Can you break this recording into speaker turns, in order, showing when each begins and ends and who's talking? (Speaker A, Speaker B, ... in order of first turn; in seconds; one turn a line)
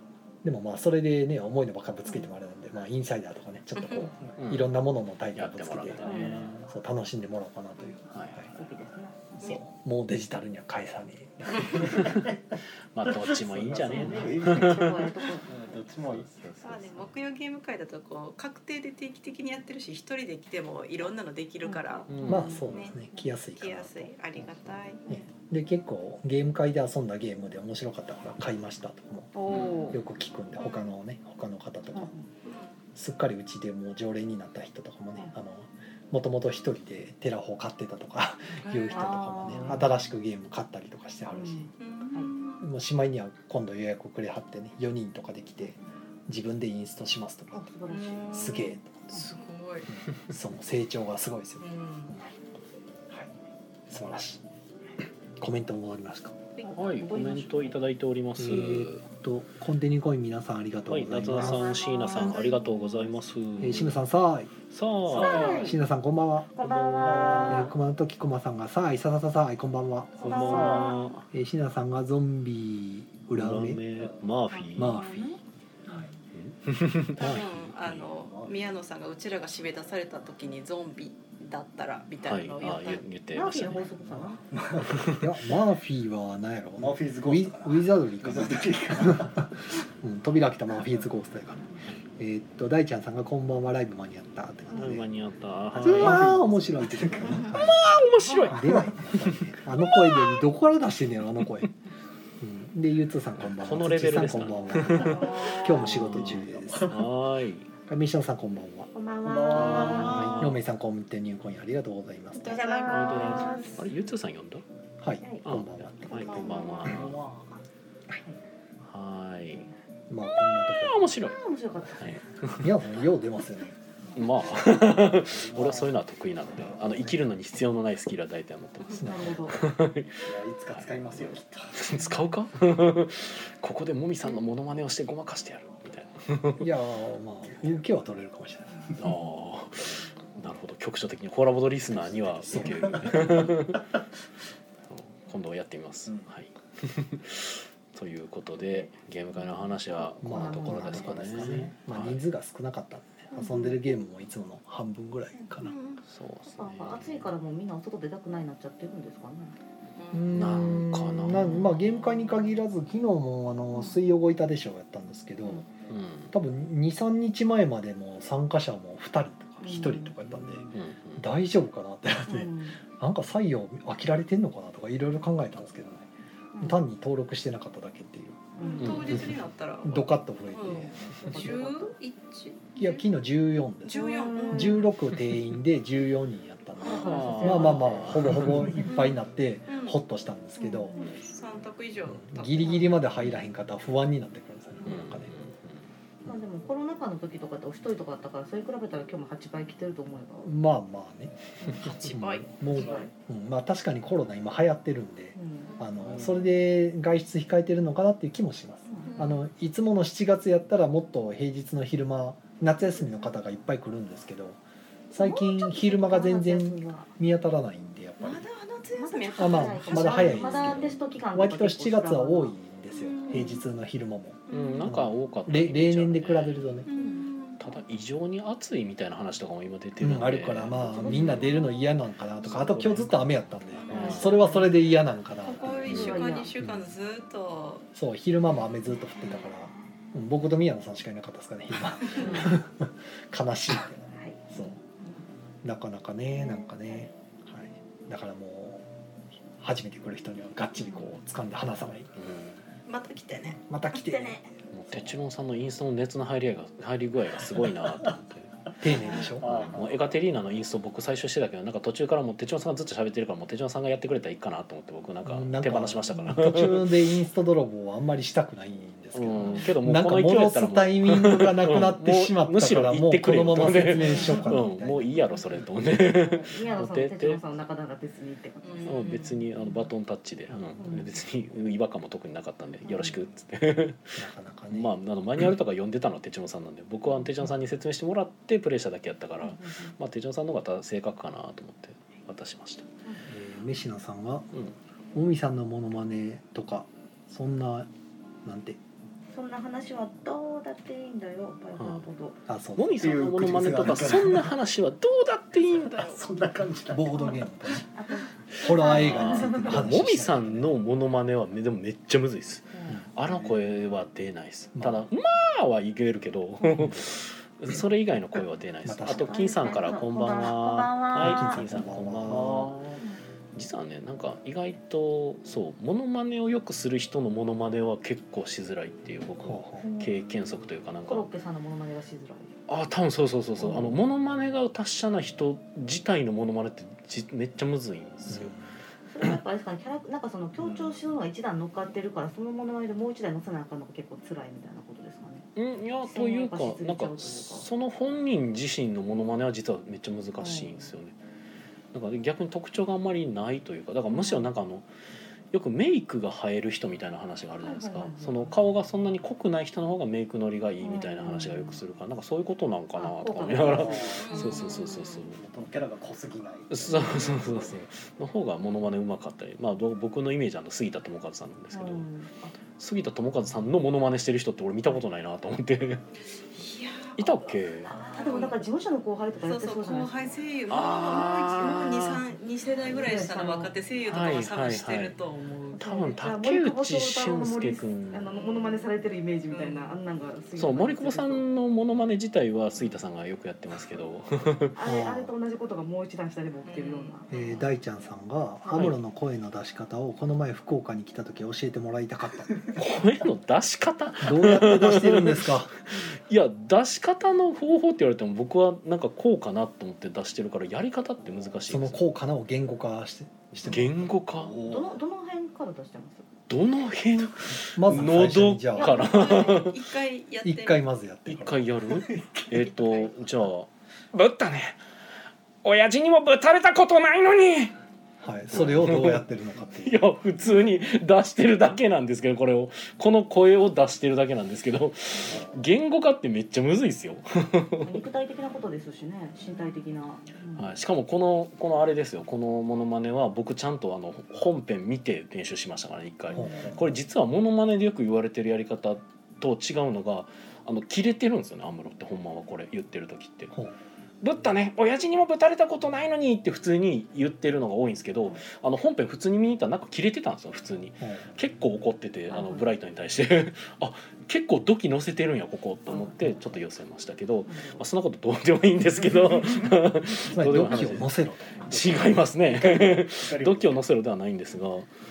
Speaker A: 0.4-6.1
Speaker B: 3.8-4.1
Speaker C: 4.4-4.7
Speaker C: 5.3-6.7
Speaker D: 6.0-6.5
Speaker E: 6.1-6.7
Speaker A: 6.7-8.5
Speaker C: 8.1-8.7
Speaker D: 8.5-9.4
Speaker A: 9.4-11.9
Speaker E: 11.6-16.4
Speaker C: 11.8-12.2
Speaker C: 12.9-15.1
Speaker D: 13.9-15.6
Speaker C: 15.9-17.1
Speaker B: 16.6-23.0
Speaker D: 21.6-22.7
Speaker C: 22.1-22.7
Speaker A: 22.2-32.1
Speaker B: 23.6-25.0
Speaker D: 29.3-30.0
Speaker C: 29.5-29.8
Speaker B: 29.5-29.9
Speaker B: 30.6-30.9
Speaker D: 31.9-32.2
Speaker B: 32.4-32.7
Speaker A: 32.9-41.7
Speaker B: 38.6-39.1
Speaker D: 38.9-39.8
Speaker D: 41.3-42.3
Speaker B: 41.8-42.6
Speaker A: 42.6-47.7
Speaker D: 47.5-48.6
Speaker B: 47.9-49.9
Speaker A: 48.3-49.1
Speaker A: 50.0-52.2
Speaker B: 51.6-52.2
Speaker A: 53.9-54.4
Speaker A: 55.4-56.4
Speaker D: 56.6-57.8
Speaker C: 56.7-59.0
Speaker A: 58.4-61.8
Speaker C: 60.9-64.0
Speaker D: 61.5-63.0
Speaker A: 63.6-64.5
Speaker C: 64.7-65.8
Speaker A: 65.1-66.7
Speaker D: 65.1-65.8
Speaker D: 66.5-67.7
Speaker E: 66.6-67.6
Speaker A: 67.5-70.7
Speaker C: 70.2-71.2
Speaker D: 70.2-71.1
Speaker A: 71.3-73.8
Speaker C: 73.3-75.0
Speaker D: 74.5-76.1
Speaker A: 74.7-75.4
Speaker C: 76.3-78.0
Speaker B: 77.2-83.0
Speaker A: 77.2-77.5
Speaker E: 78.2-78.6
Speaker C: 82.2-83.9
Speaker D: 83.3-84.4
Speaker E: 84.2-85.2
Speaker C: 84.8-85.2
Speaker A: 85.1-91.7
Speaker E: 86.8-89.5
Speaker A: 92.2-95.1
Speaker C: 94.7-96.5
Speaker A: 95.7-97.8
Speaker E: 95.8-97.4
Speaker C: 97.3-99.6
Speaker A: 98.5-101.7
Speaker A: 102.4-106.9
Speaker C: 103.5-107.7
Speaker D: 105.2-105.6
Speaker E: 106.3-107.1
Speaker A: 107.9-108.9
Speaker D: 108.9-110.4
Speaker E: 109.2-110.3
Speaker C: 109.5-110.6
Speaker B: 109.7-110.4
Speaker A: 110.0-112.7
Speaker B: 112.3-113.7
Speaker D: 112.3-113.8
Speaker C: 112.8-114.6
Speaker A: 115.0-116.4
Speaker D: 115.2-115.5
Speaker C: 115.4-117.2
Speaker D: 116.0-117.2
Speaker B: 116.2-117.1
Speaker E: 116.8-117.5
Speaker C: 118.8-119.7
Speaker A: 120.1-121.1
Speaker C: 120.7-122.8
Speaker D: 121.2-122.2
Speaker A: 122.6-123.7
Speaker C: 124.2-136.7
Speaker E: 125.3-126.0
Speaker A: 128.9-129.6
Speaker D: 129.0-129.6
Speaker E: 130.2-131.8
Speaker A: 136.6-138.9
Speaker C: 139.0-143.8
Speaker A: 141.9-143.1
Speaker E: 142.6-143.8
Speaker C: 144.9-152.2
Speaker D: 148.6-151.7
Speaker A: 150.2-155.8
Speaker D: 153.3-153.8
Speaker B: 155.6-156.0
Speaker C: 156.1-157.3
Speaker D: 156.4-159.5
Speaker B: 160.0-160.7
Speaker A: 160.1-165.7
Speaker C: 160.3-161.7
Speaker D: 161.4-161.7
Speaker C: 165.9-166.3
Speaker A: 166.3-176.1
Speaker D: 169.6-170.1
Speaker C: 170.7-171.2
Speaker D: 172.3-172.8
Speaker D: 176.5-176.8
Speaker A: 176.6-178.4
Speaker D: 178.6-179.2
Speaker B: 178.6-183.0
Speaker C: 178.8-179.2
Speaker A: 179.8-181.1
Speaker D: 181.2-181.9
Speaker A: 182.8-190.9
Speaker B: 183.8-184.8
Speaker D: 183.9-184.9
Speaker D: 186.8-188.2
Speaker B: 186.8-187.3
Speaker C: 187.0-188.8
Speaker B: 188.8-190.0
Speaker D: 190.6-191.1
Speaker B: 190.9-192.8
Speaker A: 192.1-195.3
Speaker C: 194.8-195.8
Speaker D: 196.2-200.5
Speaker A: 200.4-214.6
Speaker B: 201.6-203.1
Speaker D: 202.7-203.1
Speaker D: 205.3-205.7
Speaker B: 205.7-206.0
Speaker D: 208.9-209.3
Speaker B: 209.1-209.4
Speaker A: 215.1-218.4
Speaker D: 215.1-217.1
Speaker B: 218.2-220.8
Speaker D: 218.9-222.5
Speaker A: 219.4-226.9
Speaker B: 222.9-223.6
Speaker D: 223.3-223.6
Speaker B: 224.5-224.9
Speaker C: 224.5-226.7
Speaker B: 226.8-227.7
Speaker D: 226.9-227.3
Speaker C: 227.6-231.4
Speaker A: 230.0-236.9
Speaker D: 230.7-231.6
Speaker B: 231.0-232.8
Speaker C: 232.4-233.3
Speaker B: 233.7-234.6
Speaker C: 233.9-234.5
Speaker D: 233.9-234.7
Speaker B: 235.4-237.9
Speaker C: 235.9-236.1
Speaker D: 235.9-236.5
Speaker A: 237.9-244.0
Speaker D: 242.2-242.6
Speaker D: 244.1-245.2
Speaker A: 244.5-244.8
Speaker A: 245.6-248.8
Speaker D: 246.4-247.1
Speaker A: 249.6-252.1
Speaker C: 252.2-252.6
Speaker B: 252.9-253.6
Speaker A: 253.5-255.1
Speaker D: 254.0-254.4
Speaker C: 254.7-258.7
Speaker E: 257.5-258.1
Speaker A: 258.8-259.4
Speaker D: 258.9-259.3
Speaker E: 259.3-260.0
Speaker C: 259.4-267.0
Speaker A: 265.2-275.2
Speaker C: 269.1-277.4
Speaker D: 274.0-274.5
Speaker B: 274.0-274.4
Speaker D: 276.0-279.2
Speaker B: 278.6-279.4
Speaker C: 278.9-292.9
Speaker A: 280.5-280.8
Speaker D: 280.8-281.1
Speaker D: 282.8-283.1
Speaker A: 284.1-284.9
Speaker D: 289.4-289.9
Speaker A: 293.3-294.5
Speaker A: 295.1-297.9
Speaker A: 298.4-298.8
Speaker D: 299.3-302.4
Speaker C: 301.8-302.0
Speaker A: 302.5-303.2
Speaker C: 302.8-306.2
Speaker E: 303.0-304.5
Speaker E: 305.9-307.4
Speaker A: 306.9-307.9
Speaker D: 307.9-309.8
Speaker A: 308.5-310.7
Speaker C: 308.8-323.0
Speaker D: 312.7-313.0
Speaker A: 314.8-315.1
Speaker D: 316.6-316.9
Speaker A: 318.8-319.4
Speaker D: 319.0-321.6
Speaker A: 321.1-322.8
Speaker C: 323.5-331.3
Speaker A: 329.4-329.8
Speaker D: 329.8-330.2
Speaker D: 331.1-332.5
Speaker C: 332.7-338.6
Speaker A: 338.3-338.7
Speaker D: 339.1-345.4
Speaker C: 345.6-351.1
Speaker D: 346.1-347.6
Speaker D: 350.4-350.9
Speaker C: 351.9-354.9
Speaker D: 354.1-354.5
Speaker C: 355.5-365.4
Speaker D: 357.6-358.5
Speaker D: 360.8-361.8
Speaker D: 362.9-365.1
Speaker E: 363.5-364.3
Speaker B: 364.2-365.1
Speaker E: 365.2-367.8
Speaker C: 366.7-372.1
Speaker D: 371.7-372.5
Speaker C: 372.8-376.0
Speaker B: 376.5-377.4
Speaker C: 377.1-377.9
Speaker D: 377.9-380.4
Speaker B: 378.1-378.6
Speaker B: 379.4-386.2
Speaker C: 380.7-382.2
Speaker D: 382.9-383.7
Speaker C: 384.1-385.1
Speaker C: 385.8-388.3
Speaker D: 385.8-391.4
Speaker B: 388.4-388.9
Speaker B: 389.5-389.9
Speaker C: 390.6-394.7
Speaker D: 394.7-397.3
Speaker A: 394.8-395.3
Speaker B: 396.6-397.1
Speaker A: 397.3-402.5
Speaker C: 397.3-397.6
Speaker C: 402.8-412.0
Speaker A: 404.2-405.7
Speaker A: 411.7-414.1
Speaker C: 413.6-414.5
Speaker E: 414.3-414.9
Speaker D: 414.6-416.3
Speaker C: 416.5-419.8
Speaker A: 417.7-419.0
Speaker B: 418.8-420.8
Speaker A: 420.4-421.7
Speaker C: 421.3-424.8
Speaker E: 422.0-423.0
Speaker C: 425.6-427.7
Speaker A: 428.2-430.0
Speaker C: 428.5-429.2
Speaker C: 429.8-438.0
Speaker D: 437.8-440.7
Speaker C: 440.6-453.5
Speaker A: 446.4-446.7
Speaker C: 454.2-474.9
Speaker A: 461.0-461.3
Speaker D: 462.3-462.7
Speaker A: 466.2-466.6
Speaker D: 467.5-467.8
Speaker A: 470.3-471.6
Speaker E: 471.7-473.8